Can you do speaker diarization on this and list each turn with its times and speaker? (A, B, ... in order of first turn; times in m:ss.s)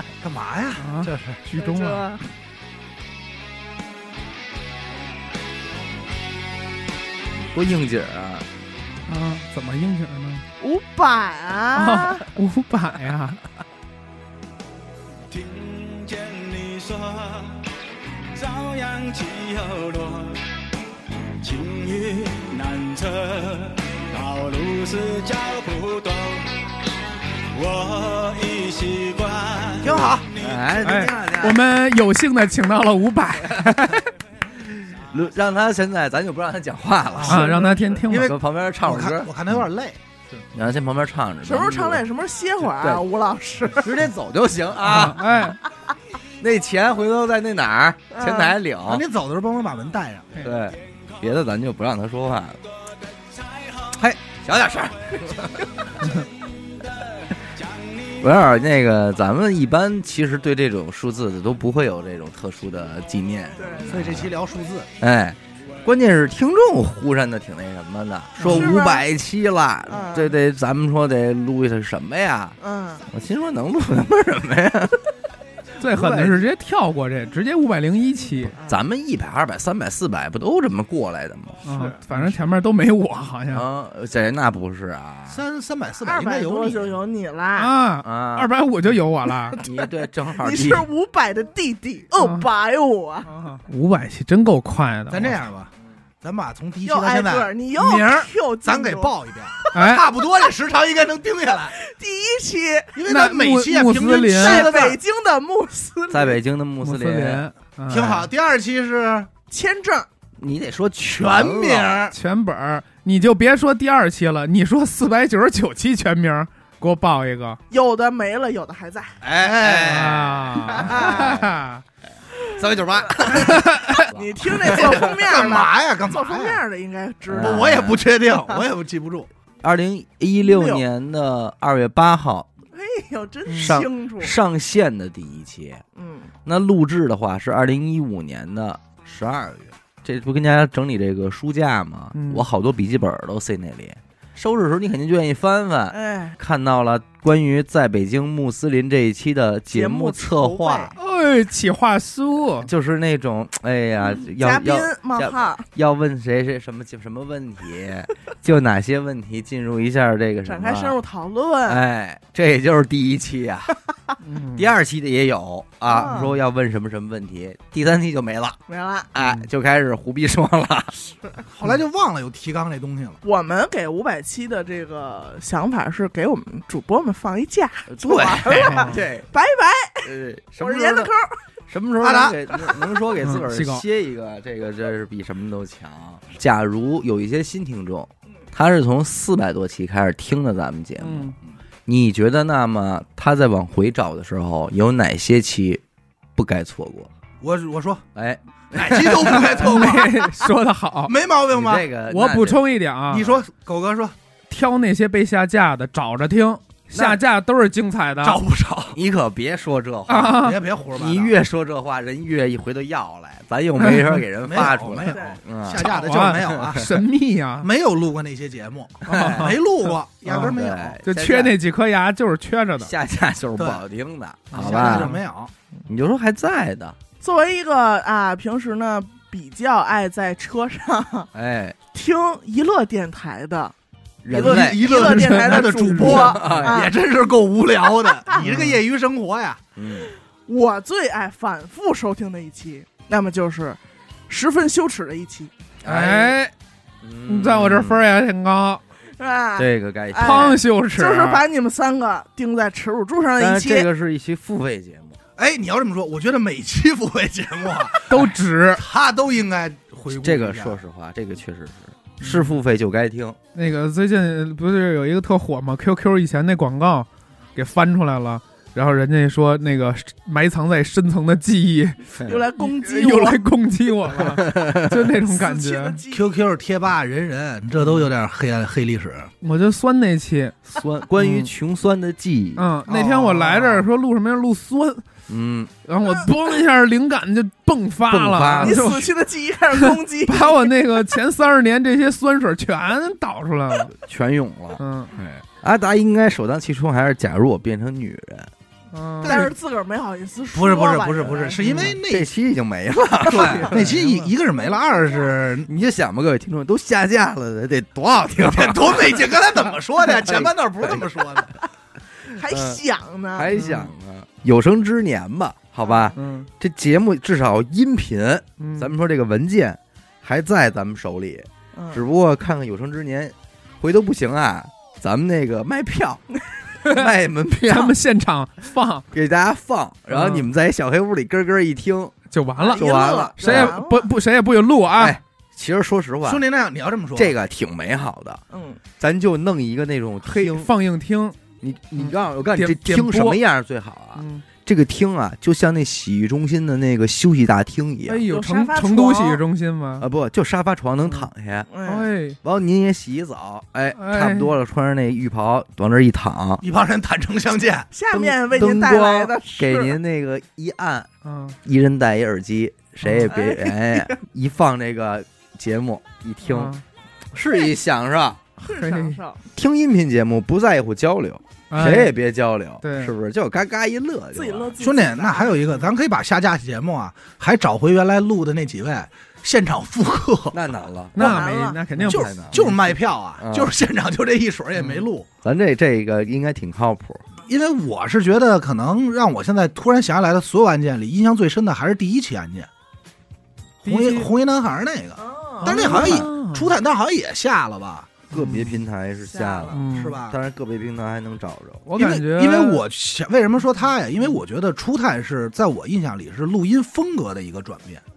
0:00.2-0:01.4 A
0:00.8-0:02.0 B
0:01.5-0:02.2 C
0:07.5-0:08.4 D
0:09.1-0:10.4 B
0:10.6-0:12.3 C
0:11.7-0:13.4 B
0:15.3-0:17.7 E
0:18.3-0:20.4 E
0:21.4-0:26.5 E
0:27.5-0:30.8 E
0:29.8-0:30.3 A
0:30.3-0:31.6 D
0:30.8-0:34.1 B
0:33.6-0:33.9 D
0:34.9-0:37.5 D
0:37.1-0:37.5 A
0:37.2-0:38.3 B
0:37.4-0:37.9 C
0:38.1-0:40.0 A
0:38.1-0:39.7 D
0:40.5-0:42.0 D
0:41.4-0:44.0 C
0:42.8-0:43.0 D
0:43.8-0:45.5 D
0:44.8-0:45.6 B
0:46.4-0:49.0 D
0:48.1-0:48.6 C
0:48.8-0:50.3 A
0:50.4-0:52.6 D
0:53.3-0:53.9 E
0:53.9-0:56.0 D
0:57.2-0:58.3 E
0:58.2-1:04.3 D
1:03.6-1:04.0 C
1:03.8-1:04.9 A
1:05.0-1:12.6 D
1:08.4-1:08.8 B
1:08.4-1:09.0 C
1:09.9-1:10.3 C
1:12.6-1:13.0 C
1:13.1-1:15.1 D
1:15.8-1:18.5 B
1:15.9-1:16.4 A
1:18.5-1:18.8 C
1:18.6-1:21.6 D
1:21.6-1:23.6 B
1:21.7-1:22.0 C
1:23.5-1:25.4 D
1:25.3-1:26.9 A
1:26.0-1:27.7 C
1:27.6-1:29.6 B
1:28.0-1:28.5 D
1:29.5-1:33.3 C
1:29.6-1:30.9 D
1:32.2-1:32.4 B
1:33.3-1:35.4 B
1:35.1-1:41.8 A
1:36.8-1:39.8 C
1:39.7-1:40.0 B
1:41.7-1:43.0 C
1:42.9-1:45.0 A
1:43.1-1:44.7 B
1:44.3-1:46.4 C
1:46.1-1:47.4 D
1:46.8-1:48.3 B
1:47.9-1:49.3 A
1:49.5-1:50.1 C
1:50.4-1:52.1 D
1:51.1-1:52.1 A
1:52.1-1:57.6 B
1:57.7-1:59.2 C
1:59.2-2:01.6 D
1:59.2-2:01.0 A
1:59.8-2:01.8 B
2:02.5-2:05.1 D
2:03.2-2:03.6 A
2:03.2-2:07.9 C
2:03.7-2:04.0 B
2:04.5-2:06.6 A
2:07.3-2:08.0 D
2:07.4-2:09.3 A
2:09.6-2:12.5 D
2:10.4-2:10.8 C
2:12.7-2:14.3 C
2:13.5-2:13.8 B
2:13.6-2:15.8 D
2:15.9-2:16.3 C
2:16.4-2:30.9 D
2:22.1-2:22.4 B
2:25.9-2:26.4 C
2:29.7-2:30.9 C
2:31.0-2:32.7 B
2:32.6-2:41.0 D
2:34.3-2:35.7 C
2:40.4-2:41.8 C
2:41.7-2:43.8 D
2:44.2-2:44.7 B
2:44.5-2:48.6 D
2:45.9-2:46.3 C
2:48.7-2:49.1 C
2:49.1-2:50.9 D
2:49.2-2:49.5 B
2:50.9-2:51.4 C
2:51.5-2:53.2 A
2:53.2-3:01.4 C
2:57.9-2:59.3 D
2:58.0-2:58.6 A
2:58.5-2:59.0 B
3:00.0-3:01.1 D
3:01.7-3:11.3 D
3:02.0-3:02.4 A
3:03.2-3:03.9 B
3:11.0-3:11.4 B
3:11.8-3:15.8 D
3:16.4-3:17.1 D
3:17.4-3:18.0 A
3:18.1-3:19.8 D
3:18.7-3:20.3 A
3:19.4-3:21.1 B
3:21.1-3:21.8 A
3:21.5-3:22.6 D
3:22.1-3:23.3 B
3:23.1-3:24.1 A
3:24.5-3:28.4 B
3:26.9-3:27.2 D
3:28.2-3:29.0 A
3:28.9-3:36.0 D
3:30.1-3:30.6 B
3:30.3-3:31.4 A
3:33.8-3:34.2 B
3:34.4-3:37.0 A
3:35.0-3:35.4 C
3:35.7-3:37.7 B
3:36.5-3:36.8 D
3:37.6-3:41.0 A
3:39.0-3:42.9 B
3:39.1-3:39.6 D
3:40.3-3:41.6 D
3:42.8-3:45.1 D
3:43.6-3:43.8 A
3:44.5-3:45.5 A
3:44.6-3:45.0 C
3:44.8-3:45.2 B
3:45.9-3:47.0 D
3:47.2-3:51.3 C
3:51.3-3:51.8 D
3:51.9-3:53.7 C
3:54.2-3:54.9 D
3:54.3-3:56.9 C
3:54.3-3:59.6 A
3:54.9-3:56.5 B
3:56.1-3:56.8 D
3:58.0-3:58.4 C
3:58.4-3:58.8 B
3:59.8-4:00.1 D
4:00.5-4:05.5 C
4:05.8-4:06.4 D
4:05.8-4:06.5 B
4:07.0-4:08.0 D
4:07.2-4:08.8 B
4:09.2-4:13.9 C
4:09.6-4:10.6 D
4:10.2-4:11.4 B
4:13.4-4:15.2 D
4:15.4-4:20.8 A
4:18.1-4:18.8 B
4:20.2-4:23.4 D
4:22.2-4:22.6 B
4:23.5-4:36.0 B
4:32.2-4:32.4 D
4:32.2-4:33.4 C
4:34.2-4:35.1 D
4:35.2-4:36.2 C
4:36.1-4:39.3 A
4:39.4-4:40.6 B
4:40.7-4:42.7 D
4:41.2-4:41.5 B
4:42.6-4:45.0 B
4:42.8-4:43.9 A
4:45.3-4:45.7 D
4:45.8-4:49.1 B
4:48.1-4:49.0 D
4:48.6-4:50.7 C
4:49.7-4:53.9 B
4:53.9-4:58.5 D
4:54.8-4:55.1 B
4:58.9-4:59.5 B
4:59.2-4:59.5 A
4:59.2-5:01.6 C
5:00.5-5:02.3 A
5:01.6-5:02.0 B
5:01.7-5:03.9 D
5:03.2-5:03.6 C
5:03.3-5:04.3 B
5:03.6-5:05.7 A
5:05.6-5:09.4 D
5:08.4-5:11.6 A
5:10.2-5:11.0 D
5:12.2-5:13.5 C
5:12.4-5:12.8 D
5:13.3-5:26.2 D
5:13.5-5:13.9 B
5:15.8-5:16.1 C
5:16.2-5:16.5 B
5:18.6-5:18.9 B
5:21.7-5:22.0 C
5:26.8-5:28.0 D
5:27.6-5:29.1 B
5:29.1-5:32.1 D
5:30.1-5:30.5 B
5:32.3-5:35.2 B
5:32.6-5:34.1 C
5:32.7-5:33.8 D
5:35.0-5:36.4 D
5:36.2-5:37.3 A
5:37.1-5:38.4 D
5:38.5-5:38.8 C
5:39.0-5:40.7 D
5:40.2-5:41.4 B
5:41.6-5:48.2 D
5:42.0-5:43.4 B
5:44.2-5:44.4 B
5:48.0-5:50.0 B
5:48.3-5:49.4 C
5:50.0-5:51.7 D
5:51.7-5:52.1 C
5:51.9-5:52.4 B
5:52.4-5:56.6 D
5:53.9-5:54.5 B
5:56.6-5:57.9 A
5:57.9-6:00.0 C
5:58.1-6:01.1 D
6:01.2-6:01.6 B
6:01.6-6:06.7 D
6:03.0-6:03.3 B
6:03.2-6:04.2 C
6:06.4-6:06.8 B
6:07.3-6:08.4 D
6:08.6-6:09.4 C
6:08.6-6:09.2 B
6:09.5-6:14.7 D
6:11.7-6:12.1 B
6:12.8-6:13.1 B
6:14.3-6:15.7 C
6:14.8-6:20.6 A
6:20.5-6:21.4 D
6:21.1-6:22.8 B
6:21.2-6:21.8 C
6:21.9-6:22.8 D
6:22.0-6:25.2 A
6:23.4-6:23.7 D
6:25.4-6:27.2 D
6:27.4-6:32.7 A
6:33.8-6:34.3 B
6:33.8-6:38.1 A
6:35.2-6:36.2 C
6:35.6-6:36.7 B
6:38.3-6:38.8 B
6:38.3-6:41.9 D
6:39.2-6:39.8 C
6:39.7-6:40.2 B
6:39.9-6:40.4 A
6:41.8-6:42.8 B
6:41.9-6:48.0 A